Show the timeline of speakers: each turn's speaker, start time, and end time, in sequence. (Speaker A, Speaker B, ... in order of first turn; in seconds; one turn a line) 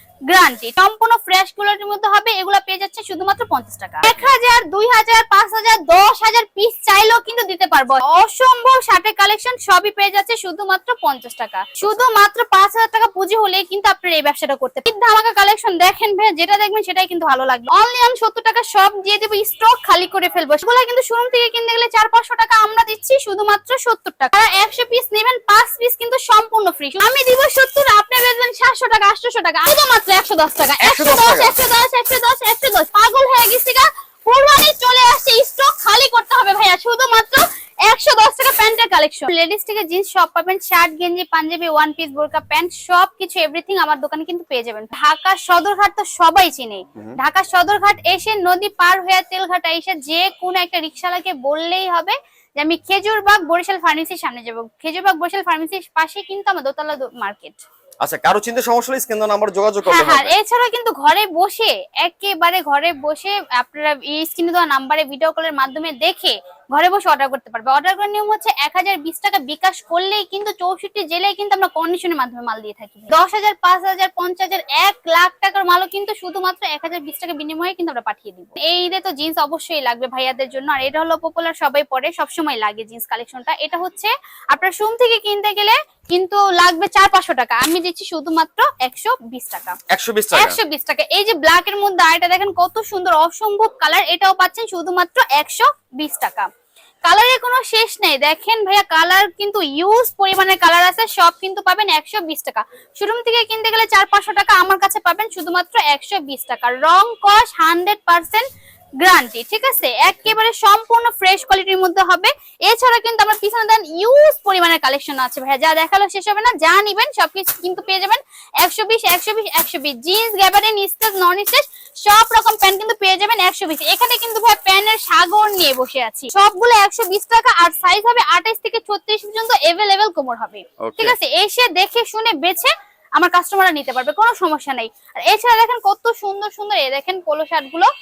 Speaker A: 0.3-57.6
Speaker B: 30.8-31.6
Speaker B: 58.0-60.3
Speaker A: 59.9-89.8
Speaker B: 89.9-90.6
Speaker A: 90.3-96.5
Speaker A: 97.1-108.5
Speaker A: 109.0-137.9
Speaker B: 130.8-131.2